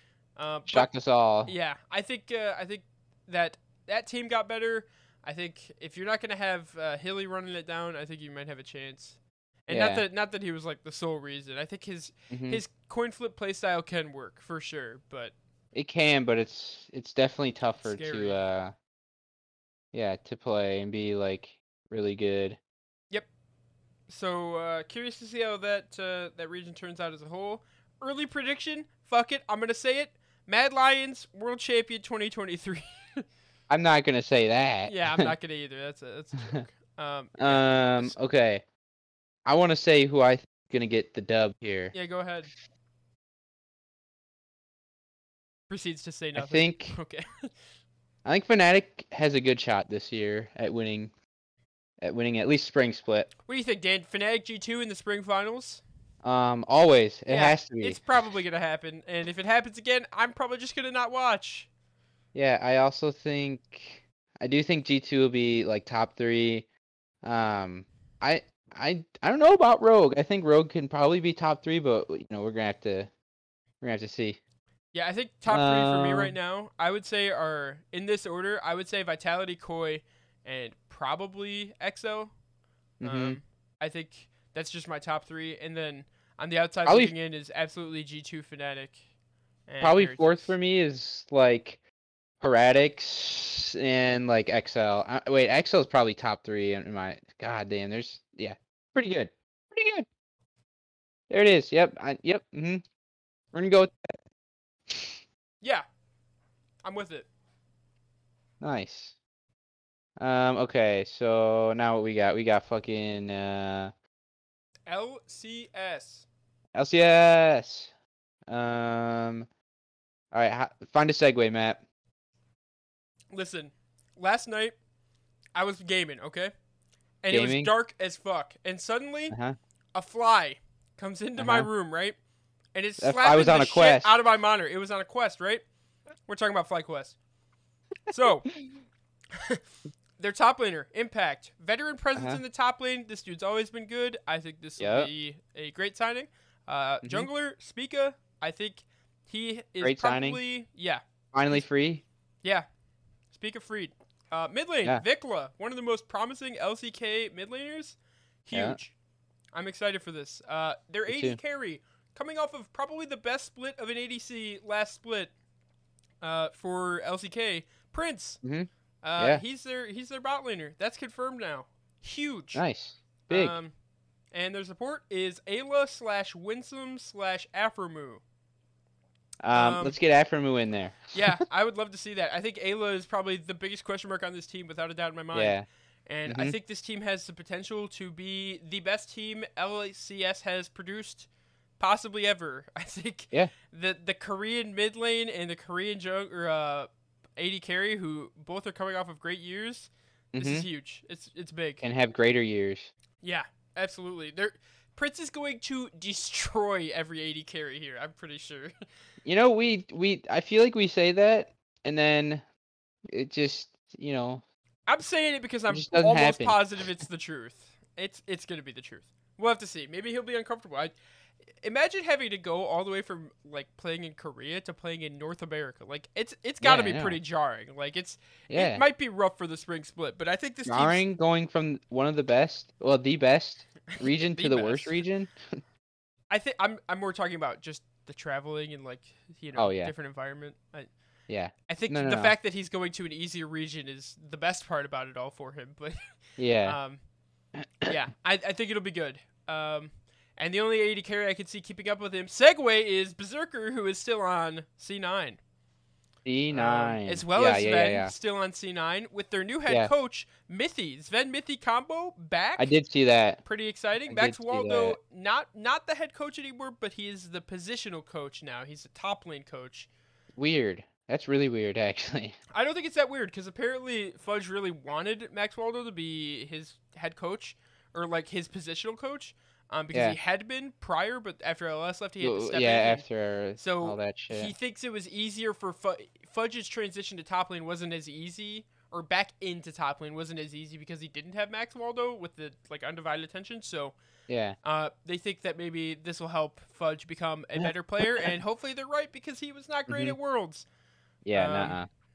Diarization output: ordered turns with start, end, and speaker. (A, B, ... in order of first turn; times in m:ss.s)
0:00.4-0:00.9 A
0:00.7-0:01.5 B
0:01.4-0:15.3 A
0:09.7-0:10.0 B
0:12.3-0:12.6 B
0:15.7-0:18.7 B
0:17.8-0:18.4 A
0:19.9-0:22.6 B
0:24.1-0:33.2 A
0:33.7-0:35.3 B
0:34.8-0:38.2 A
0:37.4-0:38.6 B
0:39.4-0:41.9 B
0:41.9-0:42.5 A
0:45.7-0:47.5 A
0:46.4-0:47.0 B
0:48.2-0:51.1 B
0:52.0-0:53.3 B
0:53.5-0:55.8 A
0:56.2-0:58.0 B
0:57.3-1:01.7 A
1:02.3-1:06.6 B
1:07.2-1:13.1 B
1:13.8-1:14.4 B
1:14.9-1:22.3 A
1:15.5-1:16.3 B
1:23.0-1:23.4 B
1:23.0-1:29.0 A
1:26.8-1:27.1 B
1:29.7-1:30.5 A
1:29.8-1:31.8 B
1:32.4-1:40.0 B
1:41.3-1:42.8 B
1:43.5-1:44.2 B
1:44.9-1:45.2 B
1:46.8-1:47.3 A
1:48.6-1:49.2 B
1:50.2-1:53.9 B
1:54.9-1:56.2 A
1:56.7-1:57.9 B
1:58.5-1:59.5 B
2:00.3-2:01.8 B
2:03.3-2:04.8 A
2:05.5-2:06.5 A
2:07.2-2:09.4 A
2:07.3-2:07.7 B
2:09.3-2:09.6 B
2:09.9-2:12.2 A
2:11.4-2:11.7 B
2:12.7-2:15.6 A
2:13.0-2:14.1 B
2:16.3-2:17.2 A
2:18.1-2:18.5 A
2:19.3-2:19.6 A
2:20.2-2:31.0 A
2:22.2-2:22.4 B
2:24.8-2:25.1 B
2:27.0-2:27.3 B
2:29.8-2:30.4 B
2:31.3-2:32.0 B
2:33.3-2:38.9 A
2:38.5-2:38.8 B
2:39.5-2:45.3 A
2:41.1-2:41.4 B
2:46.2-2:48.4 A
2:48.4-2:49.4 B
2:49.0-2:52.6 A
2:52.5-2:53.6 B
2:53.3-2:53.7 A
2:54.3-2:58.2 A
2:59.4-3:01.2 B
2:59.5-3:00.0 A
3:01.1-3:11.3 A
3:05.3-3:05.6 B
3:06.3-3:06.6 B
3:11.8-3:21.8 A
3:20.3-3:20.6 B
3:21.8-3:22.9 B
3:23.2-3:28.7 A
3:29.2-3:32.4 B
3:33.1-3:34.4 B
3:34.9-3:40.9 A
3:35.7-3:36.6 B
3:41.6-3:51.0 A
3:46.6-3:47.2 B
3:48.5-3:48.8 B
3:50.6-3:55.3 B
3:53.9-3:55.0 A
3:56.3-4:00.9 A
3:59.6-3:59.9 B
4:01.3-4:02.3 B
4:01.7-4:06.0 A
4:06.4-4:06.8 B
4:06.6-4:07.0 A
4:07.8-4:15.4 A
4:16.2-4:18.1 B
4:16.5-4:22.7 A
4:22.6-4:23.4 B
4:23.4-4:29.9 A
4:24.1-4:25.0 B
4:30.4-4:32.4 B
4:32.5-4:43.0 A
4:42.2-4:44.5 B
4:43.6-4:54.0 A
4:54.3-4:54.6 B
4:54.6-5:00.6 A
4:57.6-4:58.3 B
4:59.9-5:00.2 B
5:01.2-5:01.9 B
5:01.3-5:01.8 A